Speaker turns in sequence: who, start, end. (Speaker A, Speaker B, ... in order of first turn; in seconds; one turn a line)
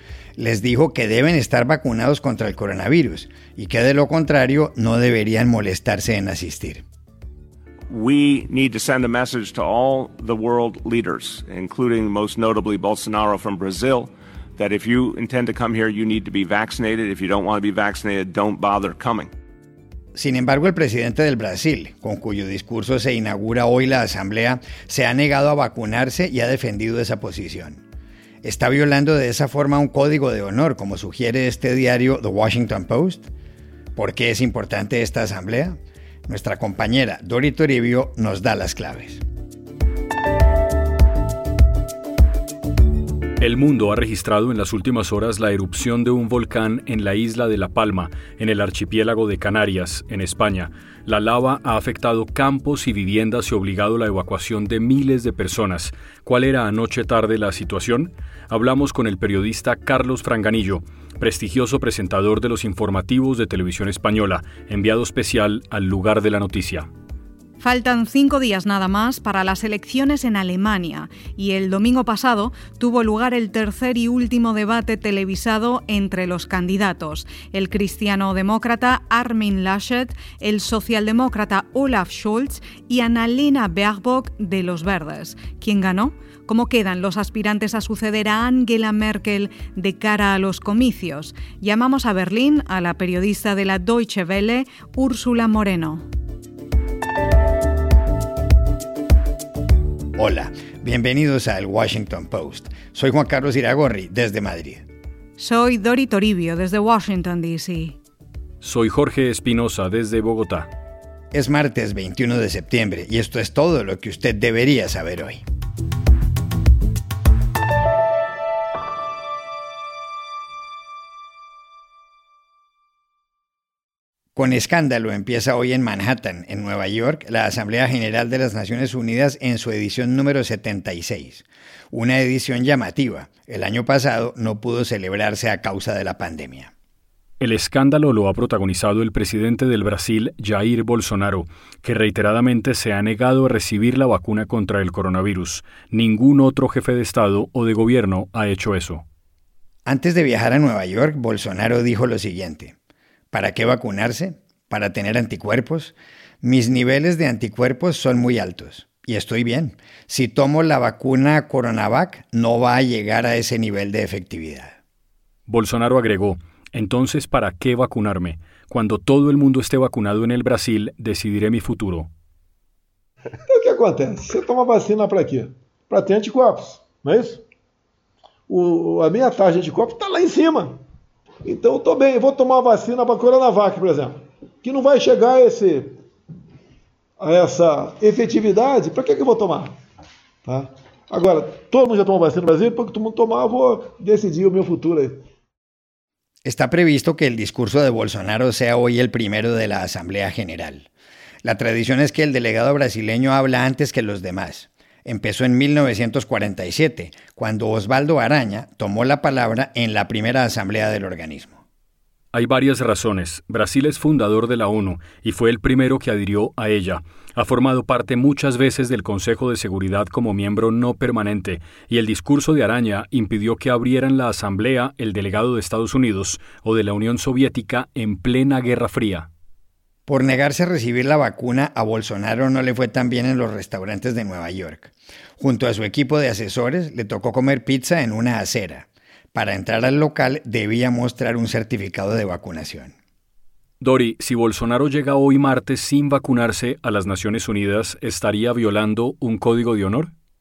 Speaker A: 0.4-6.8
Speaker B: 7.9-19.3
Speaker A: 20.1-27.8
Speaker A: 28.4-33.3
Speaker A: 34.0-39.2
Speaker C: 43.4-66.9
Speaker D: 67.6-96.0
Speaker A: 100.2-104.8
Speaker D: 105.4-108.0
Speaker C: 108.6-110.7
Speaker A: 111.3-115.4
Speaker A: 124.3-136.7
Speaker C: 137.4-149.0
Speaker A: 149.8-152.7
Speaker A: 153.3-164.8
Speaker C: 165.5-172.1
Speaker E: 173.5-177.4
Speaker E: 178.5-180.8
Speaker E: 181.4-186.0
Speaker E: 187.2-189.7
Speaker E: 190.4-195.2
Speaker A: 196.4-200.9
Speaker A: 201.4-211.6
Speaker C: 212.3-229.3
Speaker A: 230.1-242.9
Speaker C: 243.8-250.1